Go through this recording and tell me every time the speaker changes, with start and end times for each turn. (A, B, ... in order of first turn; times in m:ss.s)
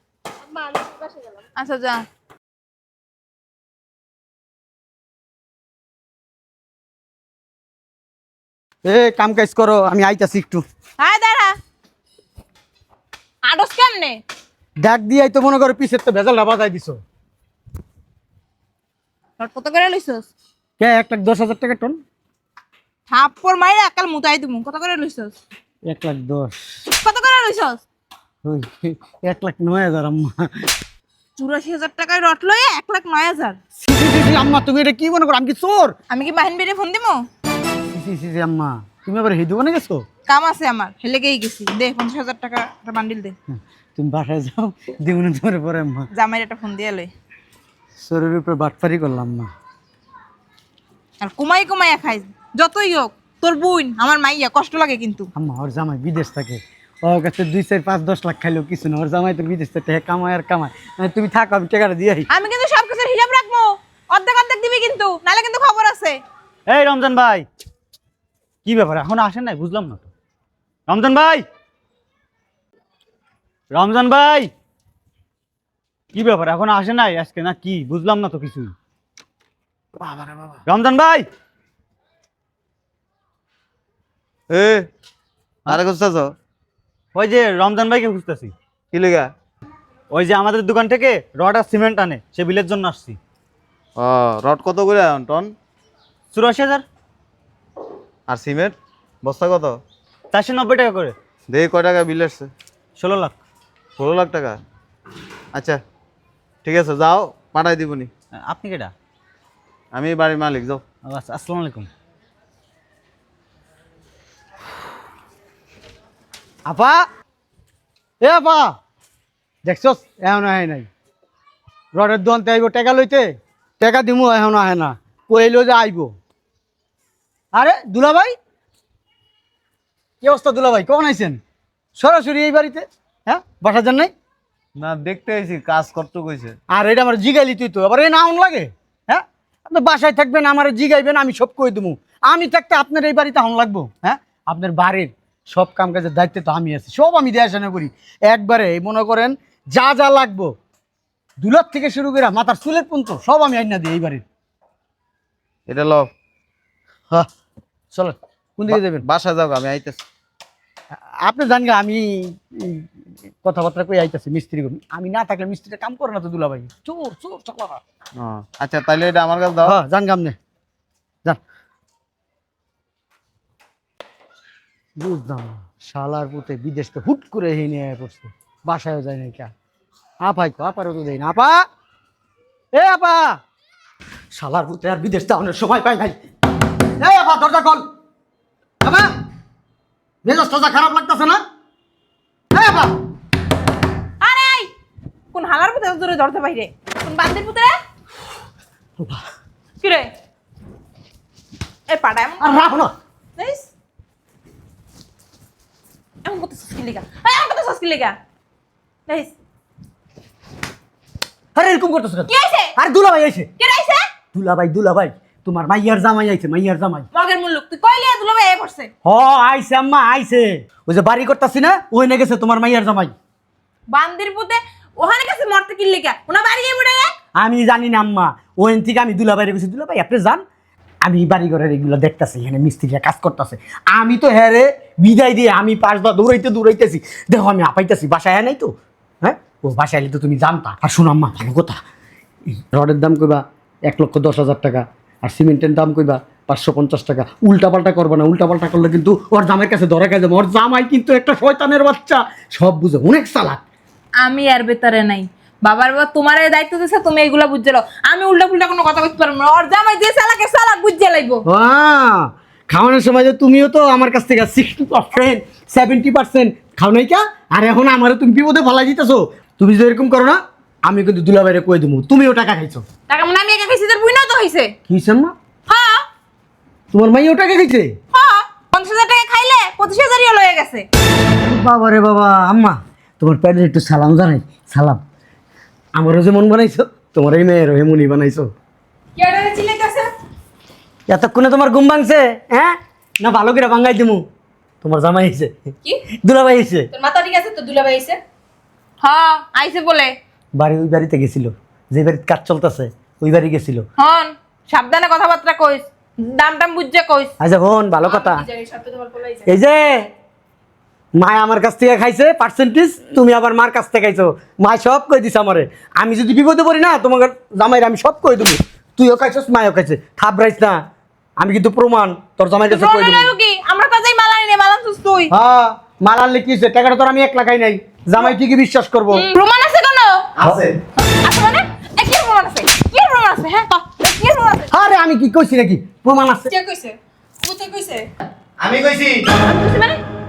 0:00.4-0:01.4 A
0:01.6-0:02.0 B
0:08.8-0:10.6 C
0:11.0-0:11.6 B
0:13.4-0:14.2 B
0:14.8-0:17.0 C
0:19.4-0:20.3 B
0:20.8-0:22.0 C
0:23.1-0:25.4 B
0:25.9-0:26.8 C
0:27.0-0:27.8 B
0:28.4-0:30.5 C
0:31.4-0:33.6 B
0:33.8-0:36.0 C
0:36.1-0:37.2 B
0:37.9-0:40.0 C
0:40.3-0:43.4 B
0:43.5-0:46.1 C
0:46.1-0:47.1 B
0:48.0-0:49.5 C
0:51.2-0:55.3 B
0:55.4-1:02.3 C
1:02.3-1:06.2 B
1:06.7-1:07.5 D
1:08.6-1:10.1 D
1:10.9-1:11.5 D
1:13.7-1:14.5 D
1:16.1-1:18.7 D
1:20.0-1:20.5 C
1:20.7-1:21.3 D
1:24.5-1:24.9 E
1:25.7-1:26.3 E
1:27.2-1:28.5 D
1:28.9-1:29.3 E
1:30.1-1:33.2 D
1:34.0-1:35.5 E
1:36.3-1:36.8 D
1:38.3-1:39.8 E
1:40.3-1:41.2 D
1:41.5-1:42.5 E
1:43.0-1:43.4 D
1:44.0-1:44.6 E
1:46.6-1:48.1 E
1:48.4-1:48.9 D
1:49.9-1:50.8 E
1:51.0-1:51.9 D
1:56.7-1:57.0 C
1:58.2-1:58.8 C
1:59.7-2:00.9 C
2:02.0-2:06.1 C
2:07.6-2:08.4 C
2:10.2-2:11.4 C
2:12.0-2:14.1 C
2:14.8-2:16.6 E
2:16.7-2:30.5 C
2:31.4-2:34.2 C
2:35.7-2:36.1 E
2:37.9-2:39.0 C
2:38.7-2:40.0 E
2:41.2-2:42.8 C
2:43.4-2:47.8 C
2:48.2-2:49.8 E
2:49.6-2:50.4 C
2:55.0-2:59.5 C
3:00.2-3:01.6 C
3:02.7-3:03.4 C
3:04.3-3:06.2 C
3:07.0-3:07.9 C
3:08.8-3:09.1 C
3:10.2-3:11.4 C
3:12.5-3:12.9 C
3:14.2-3:14.7 B
3:15.3-3:17.8 B
3:19.0-3:19.2 C
3:19.8-3:20.1 B
3:21.9-3:22.7 B
3:22.4-3:22.9 C
3:23.4-3:23.7 B
3:26.2-3:28.2 B
3:29.1-3:29.3 B
3:31.6-3:33.5 C
3:32.3-3:32.7 B
3:33.6-3:34.1 B
3:34.3-3:37.1 C
3:37.1-3:38.9 B
3:39.0-3:43.1 C
3:43.9-3:47.1 B
3:47.4-3:50.4 C
3:51.0-4:01.8 C
4:02.7-4:13.6 C
4:14.2-4:21.4 B
4:21.5-4:32.8 C
4:33.1-4:34.7 B
4:34.9-4:35.3 C
4:35.7-4:36.0 B
4:36.9-4:37.9 C
4:38.1-4:40.9 B
4:41.4-4:45.0 C
4:46.0-4:48.5 C
4:49.2-4:50.1 A
4:51.1-4:54.3 C
4:54.8-4:55.7 C
4:56.2-4:56.9 C
4:56.9-4:58.2 A
4:59.0-5:00.1 B
5:00.6-5:03.9 C
5:04.0-5:07.3 B
5:07.4-5:08.4 C
5:08.0-5:09.5 A
5:09.5-5:10.1 C
5:11.2-5:20.8 C
5:21.4-5:23.3 C
5:22.7-5:25.3 B
5:25.3-5:29.3 C
5:29.1-5:30.3 B
5:30.4-5:30.8 E
5:31.0-5:34.7 B
5:34.7-5:36.5 C
5:36.5-5:38.1 A
5:38.6-5:39.2 E
5:39.3-5:40.0 B